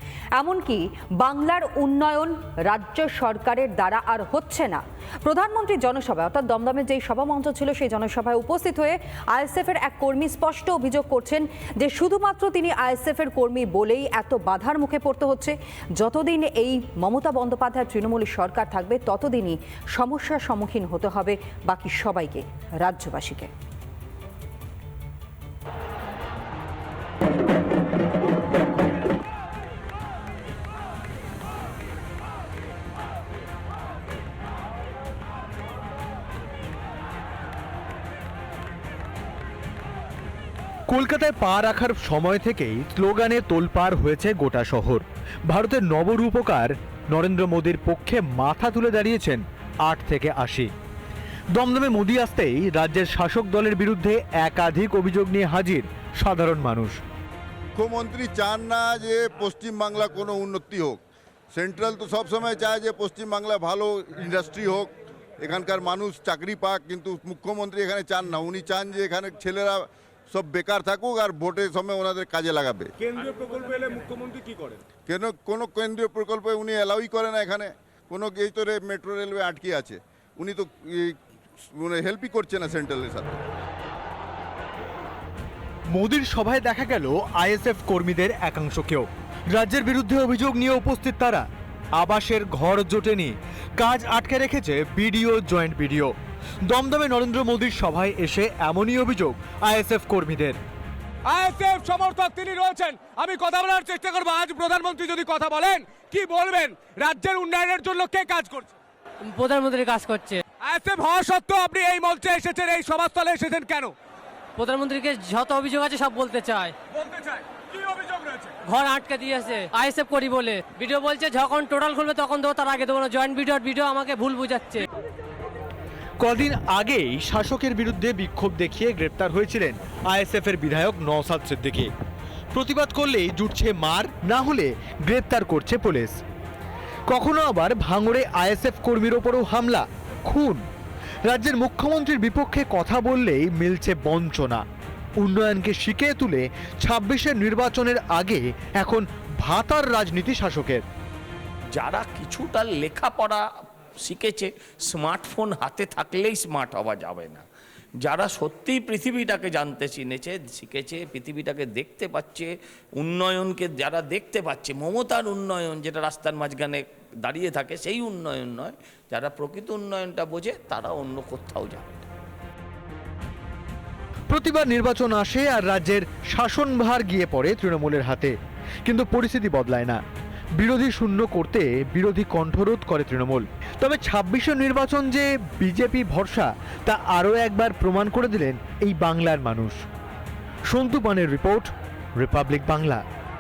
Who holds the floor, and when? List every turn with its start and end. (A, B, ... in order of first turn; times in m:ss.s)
0:00.4-0:23.5 A
0:40.9-0:50.7 B
0:51.5-0:57.0 B
0:57.8-1:12.9 C
1:13.1-1:14.8 D
1:15.1-1:21.2 C
1:21.7-1:23.4 C
1:25.9-1:40.6 B
1:41.3-1:48.7 D
1:49.2-1:50.4 E
1:50.6-1:54.0 D
1:54.6-1:56.7 E
1:57.0-1:58.5 D
1:58.6-2:04.9 E
2:06.2-2:11.9 B
2:12.5-2:16.2 B
2:17.1-2:20.6 B
2:21.3-2:24.6 B
2:25.2-2:30.8 B
2:31.7-2:33.4 F
2:34.0-2:37.4 F
2:38.0-2:52.1 F
2:54.3-3:00.0 B
3:00.6-3:09.8 B
3:10.7-3:13.0 B